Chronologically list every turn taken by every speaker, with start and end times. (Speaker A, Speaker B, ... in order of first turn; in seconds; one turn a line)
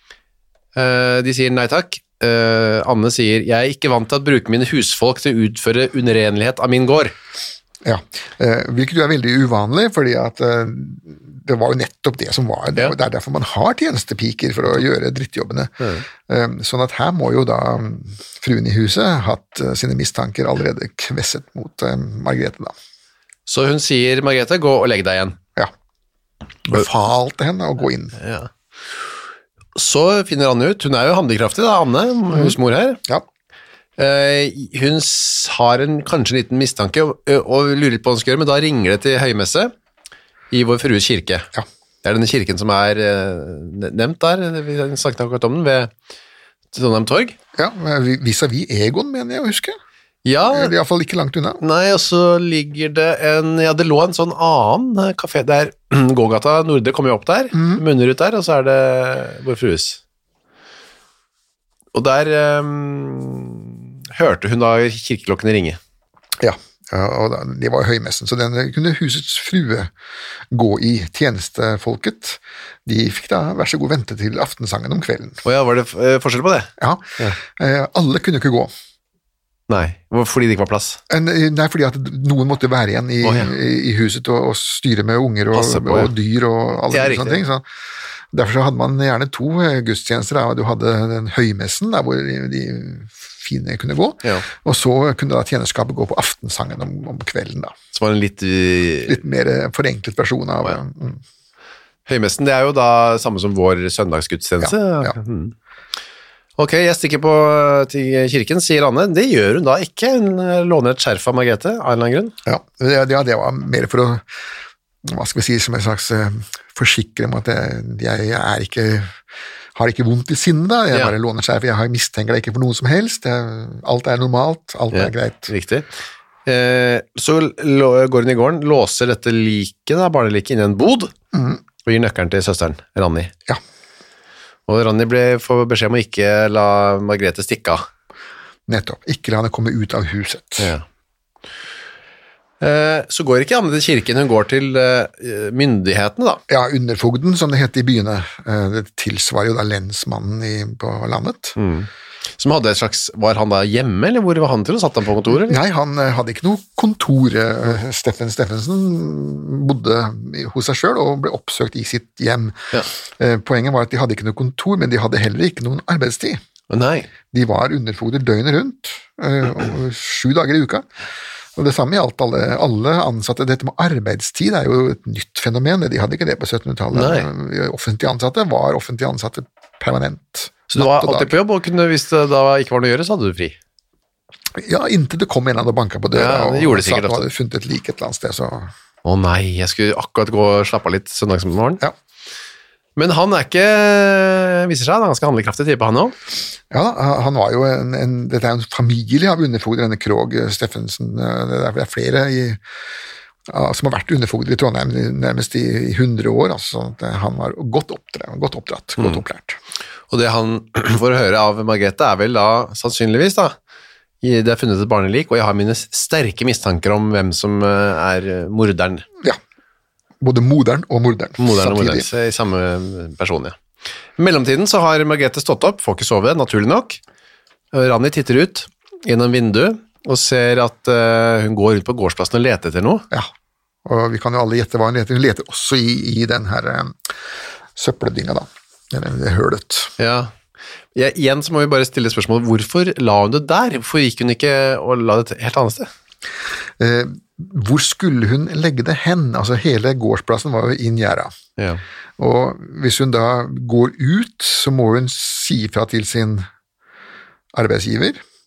Speaker A: 0.8-7.1
Speaker B: 7.8-22.7
Speaker A: 15.8-16.1
Speaker A: 23.5-25.4
Speaker B: 26.6-28.2
Speaker A: 28.2-28.5
Speaker A: 29.8-33.0
Speaker B: 32.3-33.2
Speaker A: 34.0-39.7
Speaker A: 40.5-41.5
Speaker A: 42.0-45.9
Speaker A: 46.7-47.4
Speaker B: 47.6-49.8
Speaker A: 50.2-50.7
Speaker B: 50.5-51.6
Speaker A: 51.6-60.0
Speaker B: 57.5-57.8
Speaker A: 61.9-65.8
Speaker B: 66.4-69.9
Speaker B: 70.5-75.4
Speaker A: 75.5-77.4
Speaker B: 76.8-78.7
Speaker A: 79.7-81.0
Speaker B: 81.1-87.7
Speaker A: 83.2-83.5
Speaker A: 85.5-86.1
Speaker A: 86.9-87.4
Speaker B: 88.3-97.8
Speaker A: 97.9-99.2
Speaker B: 99.0-101.2
Speaker A: 102.1-105.5
Speaker B: 104.6-105.2
Speaker A: 106.6-112.3
Speaker B: 112.5-114.2
Speaker B: 115.0-119.2
Speaker B: 119.8-125.5
Speaker A: 124.9-125.9
Speaker A: 126.5-131.1
Speaker B: 131.3-131.6
Speaker A: 131.9-133.3
Speaker A: 134.7-137.8
Speaker B: 138.7-140.7
Speaker A: 142.6-146.4
Speaker B: 146.5-151.6
Speaker A: 151.6-151.9
Speaker A: 152.4-155.6
Speaker B: 155.4-166.4
Speaker A: 166.7-167.1
Speaker B: 167.3-170.9
Speaker B: 171.6-181.3
Speaker A: 176.9-177.3
Speaker A: 180.7-183.6
Speaker B: 184.6-188.7
Speaker A: 186.1-187.3
Speaker A: 189.0-191.8
Speaker A: 193.0-196.2
Speaker B: 196.7-202.6
Speaker B: 203.5-209.6
Speaker A: 210.1-213.6
Speaker A: 214.2-219.1
Speaker B: 220.2-222.1
Speaker A: 221.4-223.6
Speaker A: 224.2-227.0
Speaker A: 227.7-233.1
Speaker B: 233.8-237.1
Speaker B: 237.8-239.9
Speaker A: 240.0-240.3
Speaker A: 240.9-245.9
Speaker B: 246.8-251.3
Speaker B: 252.2-256.5
Speaker B: 257.5-258.2